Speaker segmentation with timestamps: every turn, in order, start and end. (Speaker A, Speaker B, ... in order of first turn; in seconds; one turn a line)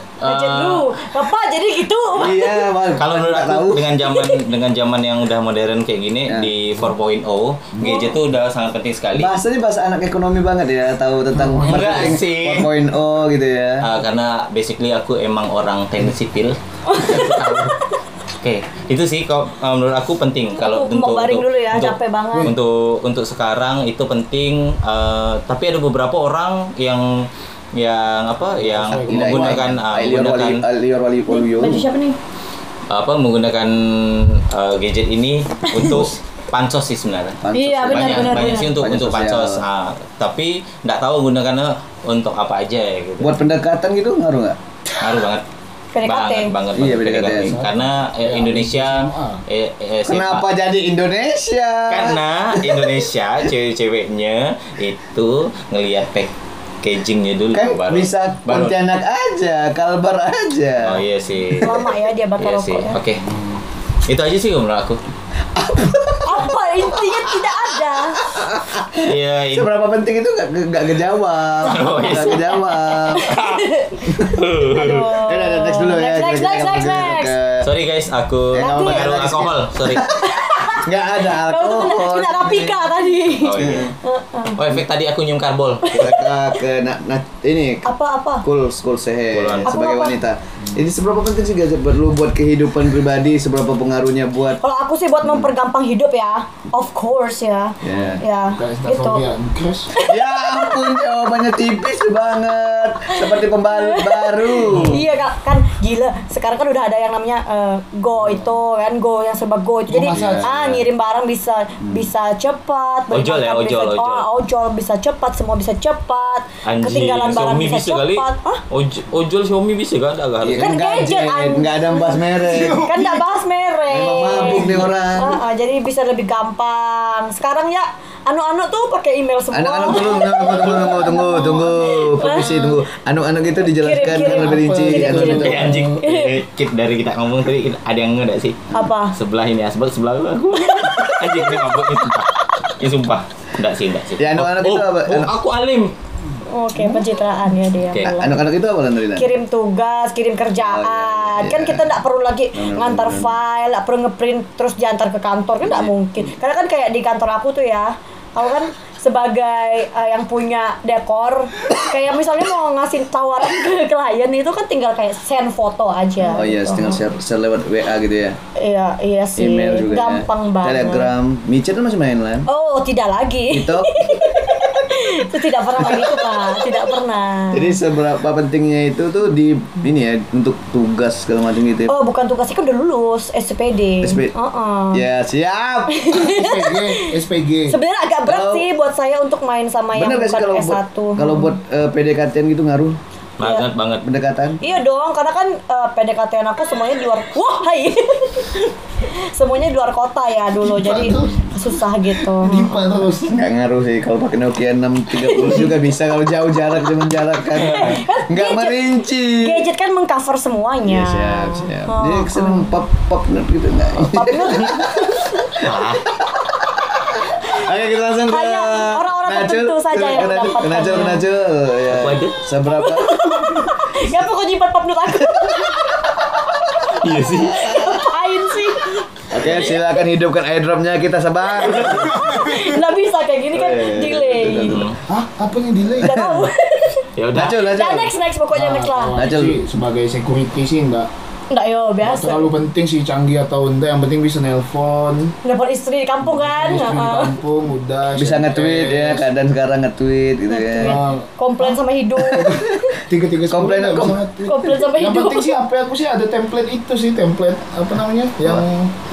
Speaker A: 0.2-0.9
Speaker B: 0.2-2.8
Speaker C: 2.1-4.0
Speaker A: 2.9-9.3
Speaker B: 4.0-4.4
Speaker C: 9.1-13.9
Speaker D: 11.3-12.2
Speaker A: 11.6-12.7
Speaker A: 13.8-17.8
Speaker B: 16.9-17.8
Speaker A: 18.4-30.6
Speaker B: 20.6-22.5
Speaker D: 28.5-29.8
Speaker C: 28.9-31.8
Speaker B: 31.3-32.2
Speaker A: 32.9-43.4
Speaker B: 35.7-36.0
Speaker C: 37.4-39.6
Speaker B: 37.5-38.8
Speaker C: 43.2-44.6
Speaker A: 45.0-45.5
Speaker B: 45.9-46.5
Speaker A: 46.0-50.5
Speaker C: 46.7-47.6
Speaker D: 47.4-49.4
Speaker C: 50.0-52.9
Speaker A: 51.9-58.8
Speaker C: 57.5-61.0
Speaker A: 60.8-61.7
Speaker B: 61.6-63.0
Speaker A: 62.4-63.2
Speaker A: 64.1-65.0
Speaker C: 65.5-67.5
Speaker B: 66.2-68.3
Speaker C: 68.2-73.3
Speaker A: 69.0-69.7
Speaker A: 71.6-72.6
Speaker B: 72.1-77.4
Speaker A: 73.3-75.1
Speaker C: 75.2-77.7
Speaker A: 77.6-80.1
Speaker C: 78.5-82.9
Speaker B: 78.5-79.2
Speaker B: 80.2-84.6
Speaker A: 83.3-83.9
Speaker C: 83.6-83.9
Speaker A: 84.5-86.1
Speaker C: 85.9-87.9
Speaker B: 85.9-86.4
Speaker B: 87.8-88.5
Speaker C: 88.4-94.6
Speaker A: 89.3-89.7
Speaker B: 89.7-90.2
Speaker B: 94.5-99.3
Speaker C: 97.8-98.2
Speaker D: 98.5-99.9
Speaker B: 99.9-100.7
Speaker C: 100.0-105.0
Speaker B: 103.1-118.6
Speaker A: 104.7-105.0
Speaker D: 109.9-110.5
Speaker C: 110.1-110.8
Speaker C: 111.8-112.1
Speaker A: 113.1-114.3
Speaker A: 116.6-120.7
Speaker C: 120.4-122.9
Speaker B: 120.6-122.0
Speaker D: 122.2-123.2
Speaker B: 122.8-132.7
Speaker C: 123.9-125.4
Speaker D: 124.2-124.9
Speaker C: 129.5-135.7
Speaker D: 130.8-131.4
Speaker D: 132.4-132.7
Speaker B: 133.6-136.4
Speaker D: 134.0-136.0
Speaker A: 135.2-145.9
Speaker B: 138.7-139.1
Speaker B: 140.7-141.8
Speaker C: 144.2-145.3
Speaker B: 146.5-148.4
Speaker A: 147.9-148.2
Speaker C: 148.0-149.3
Speaker B: 149.2-167.0
Speaker C: 150.6-151.9
Speaker C: 152.5-153.4
Speaker C: 166.2-168.4
Speaker B: 168.6-171.1
Speaker C: 169.4-172.5
Speaker B: 172.5-177.8
Speaker C: 173.5-174.3
Speaker C: 175.8-176.2
Speaker C: 177.5-181.9
Speaker B: 181.9-185.1
Speaker C: 184.0-184.3
Speaker C: 184.9-186.1
Speaker B: 185.9-187.1
Speaker D: 186.1-187.8
Speaker B: 187.7-191.5
Speaker C: 188.3-188.7
Speaker C: 189.9-193.0
Speaker A: 193.4-194.1
Speaker B: 193.4-193.7
Speaker C: 194.0-194.6
Speaker B: 194.6-203.1
Speaker D: 200.6-203.4
Speaker C: 203.3-209.7
Speaker B: 205.2-205.8
Speaker B: 207.5-212.7
Speaker C: 210.8-215.1
Speaker B: 214.1-215.6
Speaker A: 215.6-216.1
Speaker C: 216.2-223.3
Speaker B: 218.2-221.3
Speaker A: 221.9-222.4
Speaker B: 222.7-229.5
Speaker A: 226.9-228.0
Speaker C: 227.5-228.0
Speaker C: 229.3-232.2
Speaker B: 231.8-234.8
Speaker D: 231.8-232.8
Speaker C: 233.5-234.9
Speaker A: 234.7-235.0
Speaker D: 235.1-236.2
Speaker C: 236.0-236.5
Speaker B: 236.0-237.1
Speaker A: 237.2-237.6
Speaker C: 237.3-238.1
Speaker B: 237.6-239.2
Speaker D: 238.5-241.1
Speaker C: 239.2-239.6
Speaker B: 241.5-242.5
Speaker D: 242.0-245.4
Speaker B: 245.4-247.4
Speaker D: 246.2-249.3
Speaker C: 248.2-251.0
Speaker B: 250.5-252.6
Speaker D: 250.8-251.8
Speaker C: 252.2-252.9
Speaker D: 252.3-258.9
Speaker C: 253.5-254.2
Speaker B: 254.5-255.6